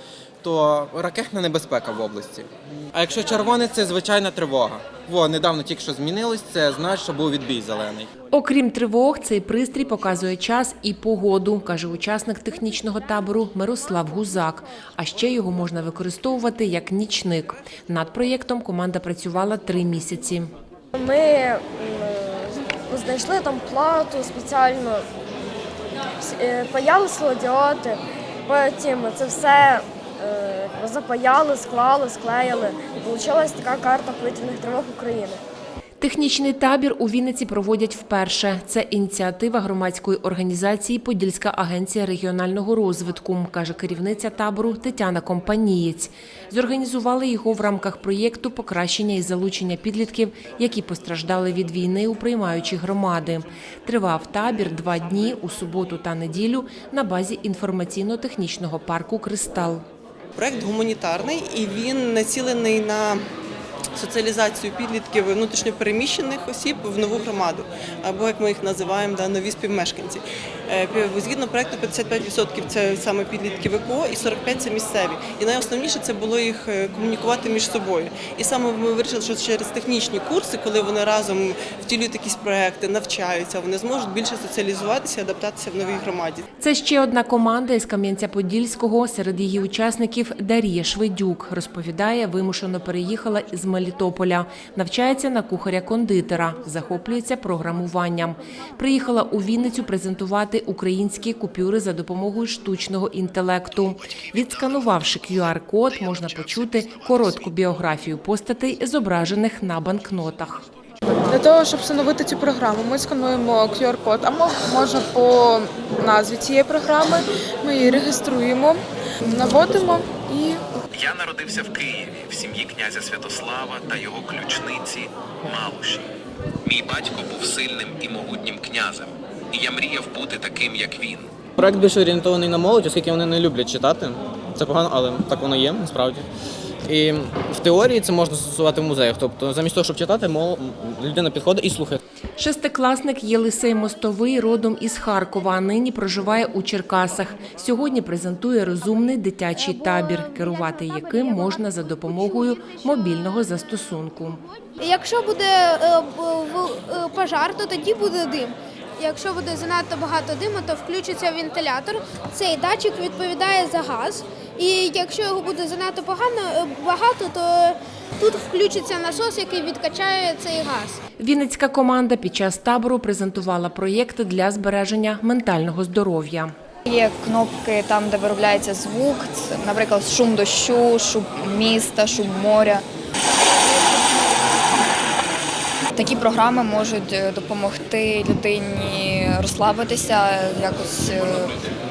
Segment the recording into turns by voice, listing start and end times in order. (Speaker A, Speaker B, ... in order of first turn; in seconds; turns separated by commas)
Speaker A: 0.4-8.1, Speaker B: 8.3-20.5, Speaker C: 20.9-25.1, Speaker C: 26.2-35.4, Speaker B: 36.0-59.8, Speaker D: 60.4-63.2, Speaker D: 64.0-86.4, Speaker B: 86.6-110.6, Speaker E: 111.3-120.6, Speaker F: 120.9-126.0, Speaker F: 126.7-129.0, Speaker F: 129.5-131.2, Speaker G: 131.6-136.2, Speaker G: 136.9-142.0, Speaker B: 142.4-154.4, Speaker H: 149.6-153.5, Speaker H: 154.5-171.0, Speaker B: 171.2-176.5, Speaker I: 176.8-182.8, Speaker I: 185.9-191.6